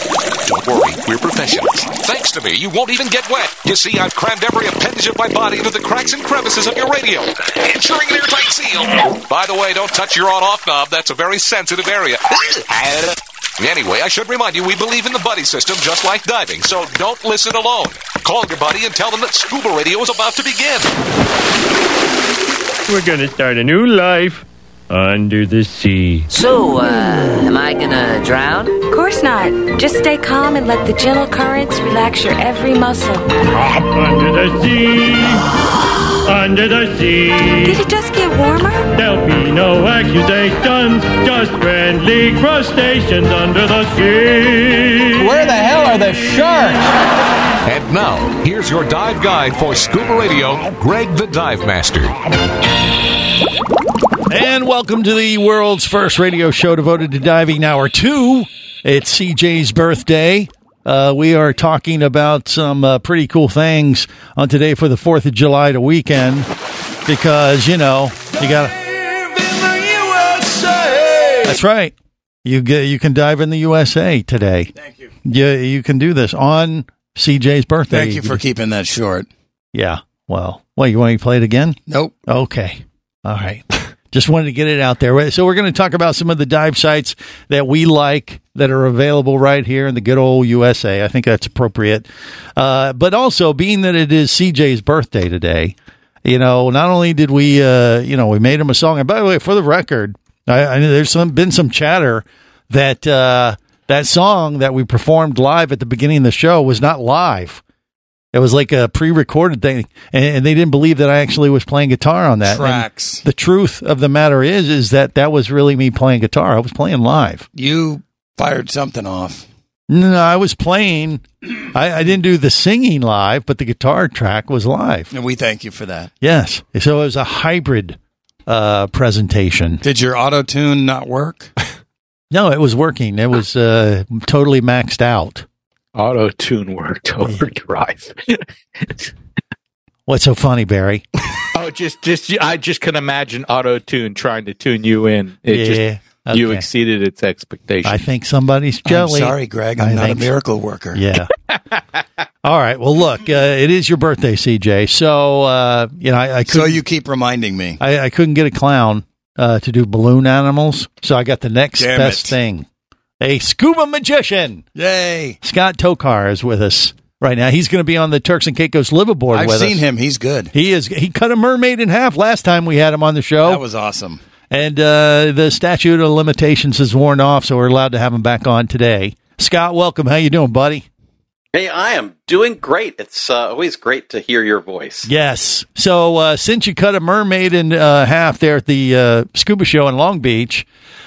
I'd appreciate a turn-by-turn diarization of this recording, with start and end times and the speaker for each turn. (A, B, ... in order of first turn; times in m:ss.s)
0:00.4-0:20.9 A
0:22.9-0:26.3 B
0:26.3-0:28.8 C
0:28.9-0:33.3 D
0:33.7-0:35.4 B
0:36.3-0:37.8 B
0:37.6-0:38.9 D
0:38.9-0:45.5 B
0:47.6-0:52.1 A
0:54.3-1:06.5 E
1:07.0-1:08.8 E
1:09.4-1:09.8 E
1:09.9-1:11.4 F
1:10.3-1:10.8 E
1:11.4-1:14.7 E
1:14.8-1:15.0 F
1:15.2-1:18.4 E
1:17.9-1:19.3 F
1:19.7-1:47.6 E
1:21.9-1:22.1 F
1:48.3-1:57.5 E
1:52.4-1:53.2 F
1:57.5-1:59.4 F
1:59.9-2:05.1 E
2:05.1-2:06.1 F
2:06.2-2:09.8 E
2:09.8-2:11.5 F
2:12.3-2:15.4 E
2:15.9-2:18.4 G
2:20.1-2:21.0 E
2:21.5-2:28.0 G
2:25.5-2:26.7 E
2:27.8-2:30.3 E
2:28.8-2:31.0 F
2:30.9-2:31.3 E
2:32.4-2:36.8 E
2:36.5-2:37.8 F
2:37.8-2:42.7 E
2:41.8-2:42.3 F
2:43.2-2:44.7 E
2:44.8-2:45.4 F
2:45.4-2:49.8 E
2:49.3-2:50.5 F
2:50.5-2:53.6 E
2:53.4-2:54.2 F
2:54.5-3:00.9 E
3:01.5-3:05.1 H
3:05.0-3:10.6 E